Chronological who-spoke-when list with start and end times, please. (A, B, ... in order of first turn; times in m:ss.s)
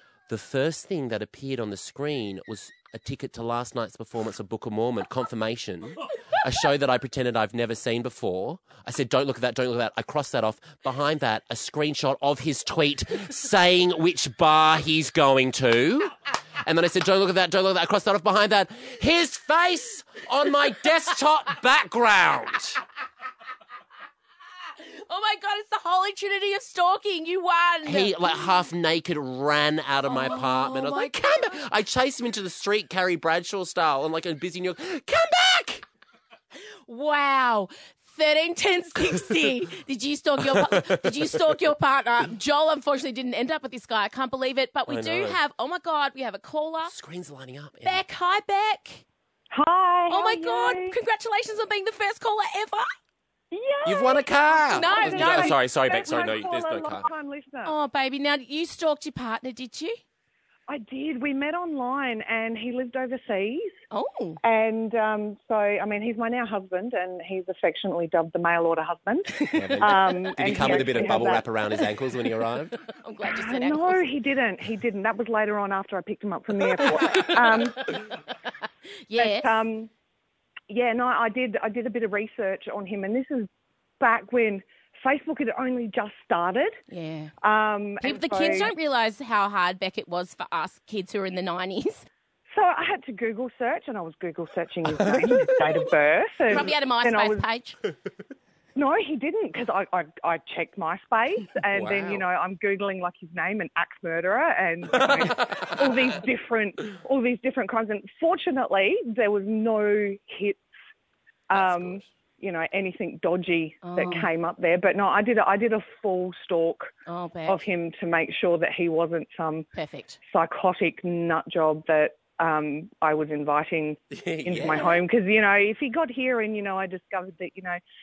0:00.3-0:22.8 A
0:25.1-0:28.4 B
0:27.8-0:35.8 A
0:30.1-0:31.2 B
0:36.9-0:46.9 B
0:40.5-0:41.3 A
0:44.9-0:45.4 A
0:46.8-0:48.0 A
0:47.8-0:49.0 B
0:49.5-0:50.9 C
0:50.1-0:52.9 B
0:53.5-0:54.0 C
0:53.8-0:57.1 A
0:54.7-0:55.6 B
0:54.7-0:57.7 C
0:57.6-1:00.0 B
1:00.7-1:03.7 C
1:03.9-1:04.4 B
1:04.4-1:11.4 C
1:09.5-1:12.7 A
1:12.8-1:14.0 B
1:13.2-1:18.0 C
1:17.0-1:18.0 B
1:19.1-1:19.5 B
1:19.2-1:19.9 C
1:20.7-1:23.5 C
1:24.0-1:26.8 C
1:26.9-1:27.3 B
1:27.4-1:28.7 C
1:28.0-1:32.0 B
1:32.5-1:37.5 C
1:36.5-1:37.8 B
1:38.8-1:50.6 C
1:41.7-1:42.2 A
1:45.0-1:45.6 A
1:51.5-1:56.9 C
1:51.5-1:52.1 A
1:53.8-1:54.3 B
1:57.0-1:57.6 B
1:57.5-1:59.6 C
1:59.7-2:00.2 B
2:00.3-2:07.8 C
2:04.1-2:05.0 A